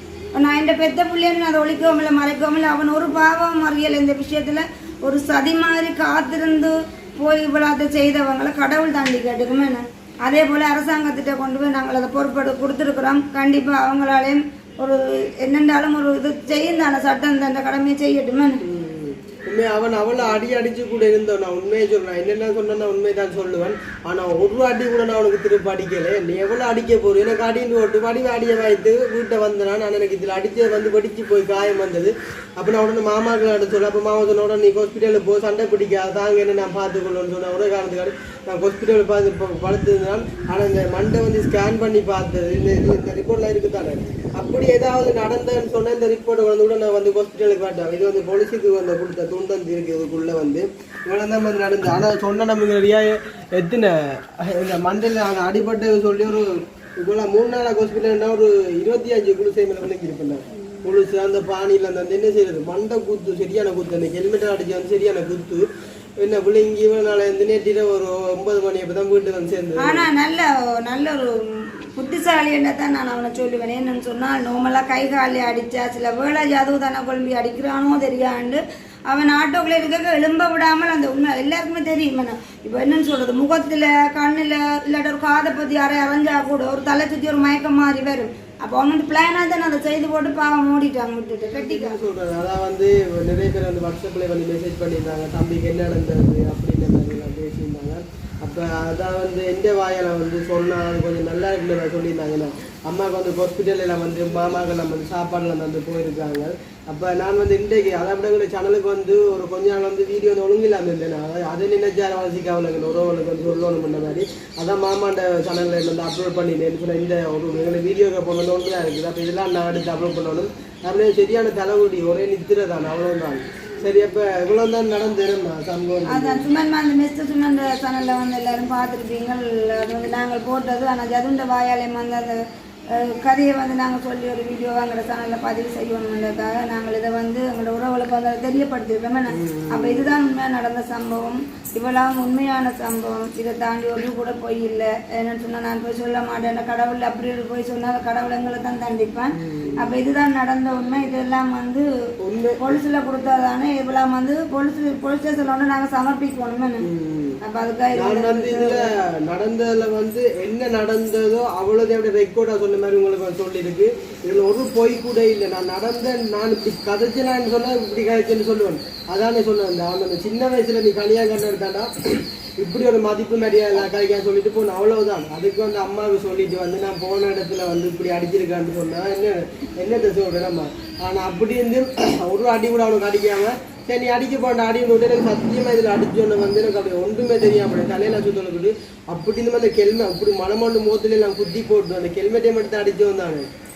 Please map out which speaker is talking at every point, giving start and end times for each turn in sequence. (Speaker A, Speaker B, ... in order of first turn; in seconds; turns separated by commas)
Speaker A: 0.3-18.6, Speaker B: 18.6-65.7, Speaker B: 66.2-70.1, Speaker A: 69.8-92.0, Speaker B: 91.5-126.5, Speaker A: 126.1-151.9, Speaker B: 139.3-140.1, Speaker B: 149.3-149.9, Speaker B: 152.2-152.7, Speaker A: 152.6-156.9, Speaker B: 156.8-157.4, Speaker A: 157.4-158.9, Speaker B: 157.9-193.5